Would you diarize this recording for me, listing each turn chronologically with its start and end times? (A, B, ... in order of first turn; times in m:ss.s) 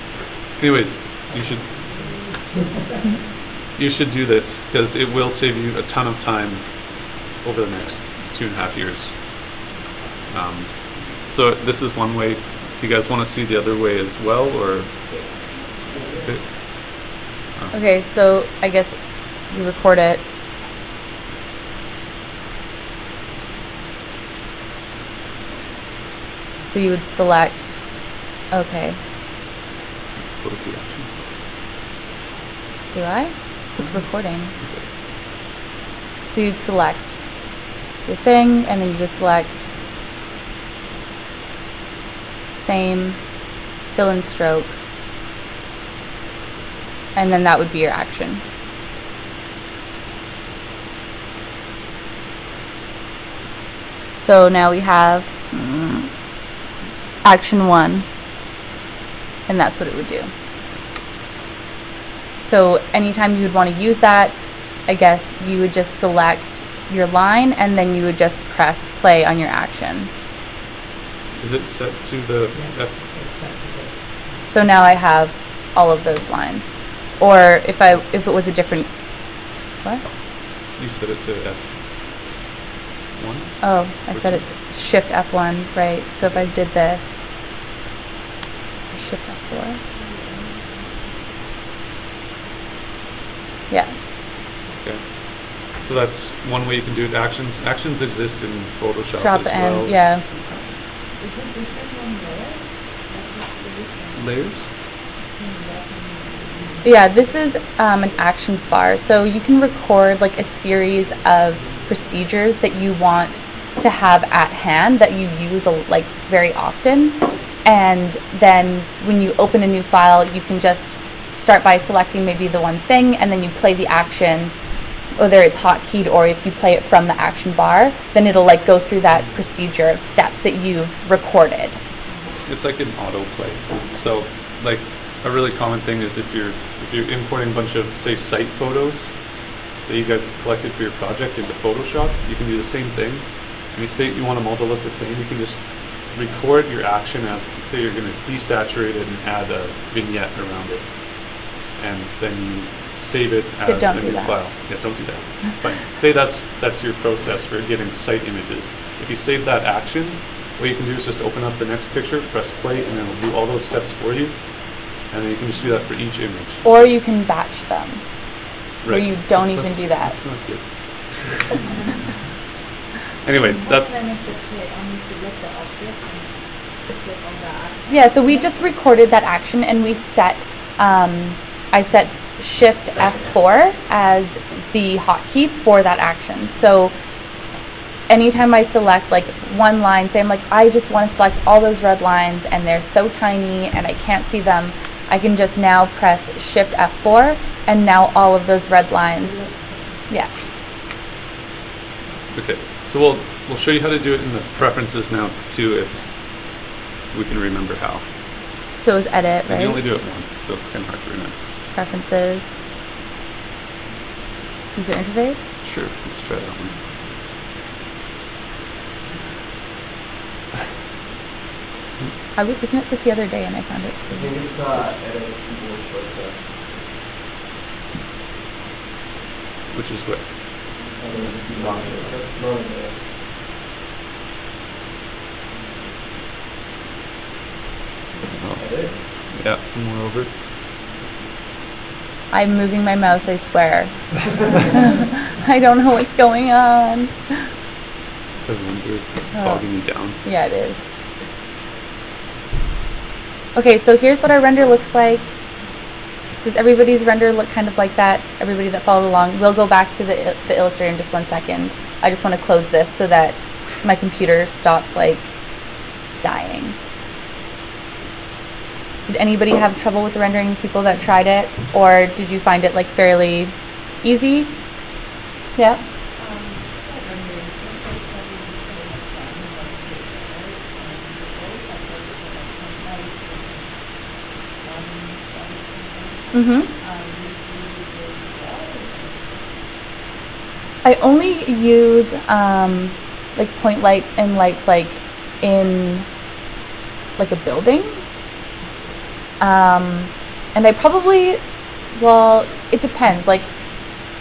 0:00.6-0:01.7 A
0:01.3-0:03.2 B
0:01.9-0:02.6 C
0:03.7-0:09.2 A
0:10.3-0:15.1 A
0:17.7-0:20.2 D
0:26.7-0:27.8 D
0:28.5-0:29.0 D
0:30.1-0:31.6 A
0:32.9-0:34.5 D
0:34.6-0:34.9 A
0:36.2-0:37.2 D
0:38.0-0:39.7 D
0:42.5-0:43.2 D
0:43.9-0:44.7 D
0:47.1-0:48.4 D
0:54.2-0:56.1 D
0:57.2-0:58.0 D
0:59.5-1:00.3 D
1:02.4-1:10.1 D
1:11.4-1:12.9 A
1:12.5-1:14.5 B
1:14.5-1:18.9 D
1:20.8-1:21.6 A
1:23.2-1:24.4 A
1:23.6-1:27.2 D
1:28.9-1:29.8 D
1:29.8-1:31.6 C
1:33.7-1:33.9 D
1:34.8-1:40.5 A
1:39.2-1:40.3 D
1:41.2-1:44.3 C
1:44.1-1:44.7 A
1:45.2-1:46.9 C
1:46.8-2:04.5 D
2:05.1-2:11.8 D
2:12.4-2:46.9 A
2:33.6-2:34.4 D
2:46.6-2:48.0 D
2:48.8-2:51.3 A
2:48.9-2:50.1 D
2:53.2-2:53.9 A
2:53.4-2:58.5 C
2:57.9-3:06.9 D
3:08.1-3:19.4 D
3:19.1-3:20.1 C
3:22.3-3:28.0 A
3:28.8-3:29.8 D
3:29.5-3:31.4 A
3:31.7-3:32.6 D
3:34.7-3:35.5 D
3:35.6-3:36.7 A
3:42.4-3:44.4 D
3:44.1-3:46.8 E
3:49.7-3:50.3 A
3:51.0-3:53.0 E
3:58.3-4:00.3 A
3:58.6-3:58.9 E
4:02.3-4:07.5 D
4:08.4-4:10.2 A
4:09.3-4:09.6 D
4:10.2-4:10.9 D
4:13.5-4:15.4 D
4:16.4-4:25.3 D
4:26.2-4:26.8 D
4:29.0-4:34.5 D
4:35.6-4:35.8 D
4:36.2-4:43.7 C
4:44.6-4:49.7 C
4:46.3-4:46.7 D
4:50.8-4:56.0 D
4:57.2-4:58.0 D
4:59.4-5:01.4 D
5:01.9-5:03.5 D